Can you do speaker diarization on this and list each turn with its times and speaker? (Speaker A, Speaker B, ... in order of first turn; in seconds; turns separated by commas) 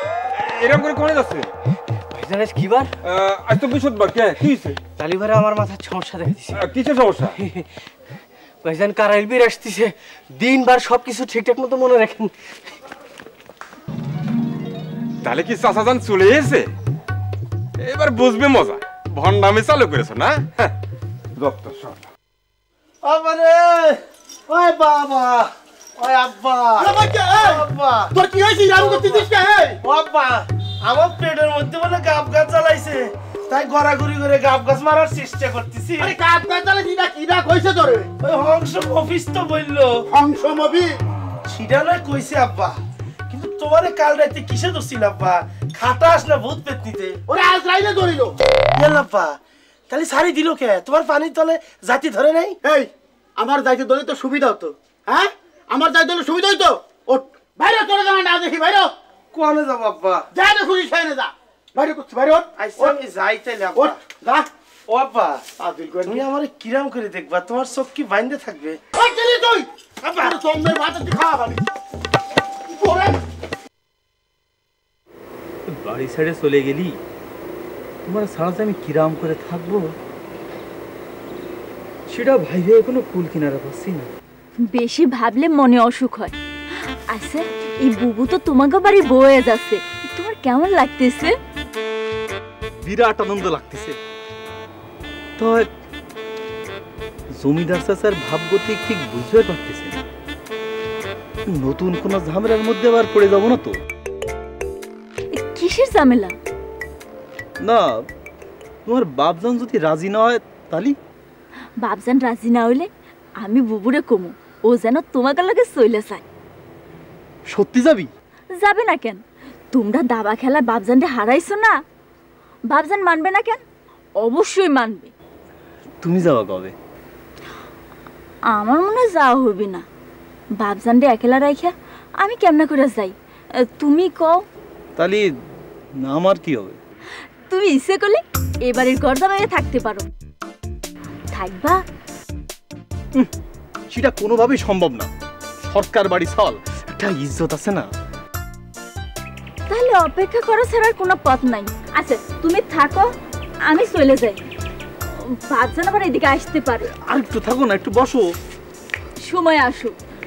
Speaker A: 0.3-1.5, Speaker B: 2.1-2.9, Speaker A: 3.0-4.8, Speaker B: 5.0-6.6, Speaker A: 6.5-7.4, Speaker B: 7.3-7.7, Speaker B: 8.6-12.3, Speaker A: 15.2-16.7, Speaker A: 17.8-20.7, Speaker A: 21.4-22.0, Speaker C: 23.0-28.1, Speaker D: 26.8-29.8, Speaker C: 29.8-36.1, Speaker D: 36.0-38.1, Speaker C: 38.2-40.0, Speaker D: 40.1-41.0, Speaker C: 41.5-42.8, Speaker C: 43.3-47.2, Speaker D: 47.3-48.4, Speaker C: 48.8-49.4, Speaker C: 49.9-52.6, Speaker D: 52.6-58.9, Speaker C: 59.3-60.3, Speaker D: 60.3-63.0, Speaker C: 62.6-64.0, Speaker D: 63.8-64.5, Speaker C: 64.9-65.5, Speaker D: 65.6-66.3, Speaker C: 66.1-68.8, Speaker D: 69.0-71.6, Speaker C: 70.0-70.3, Speaker D: 72.7-73.2, Speaker E: 75.7-77.0, Speaker E: 78.1-80.0, Speaker E: 82.1-84.1, Speaker F: 84.7-86.3, Speaker F: 87.1-91.4, Speaker E: 92.8-94.0, Speaker E: 95.4-95.7, Speaker E: 97.4-100.0, Speaker E: 101.5-103.8, Speaker F: 105.3-106.4, Speaker E: 107.6-108.0, Speaker E: 108.9-111.0, Speaker F: 111.8-112.9, Speaker F: 113.4-116.2, Speaker E: 117.5-118.1, Speaker F: 118.6-119.2, Speaker F: 119.7-121.8, Speaker F: 122.7-123.6, Speaker F: 124.2-125.1, Speaker E: 126.0-126.8, Speaker F: 128.5-129.8, Speaker F: 130.6-134.4, Speaker E: 135.0-135.3, Speaker E: 136.0-136.8, Speaker F: 137.5-140.1, Speaker F: 141.3-141.8, Speaker E: 143.9-145.1, Speaker E: 145.7-147.9, Speaker F: 149.7-153.1, Speaker F: 153.7-154.4, Speaker F: 155.2-156.9, Speaker E: 156.9-158.2, Speaker F: 159.2-159.9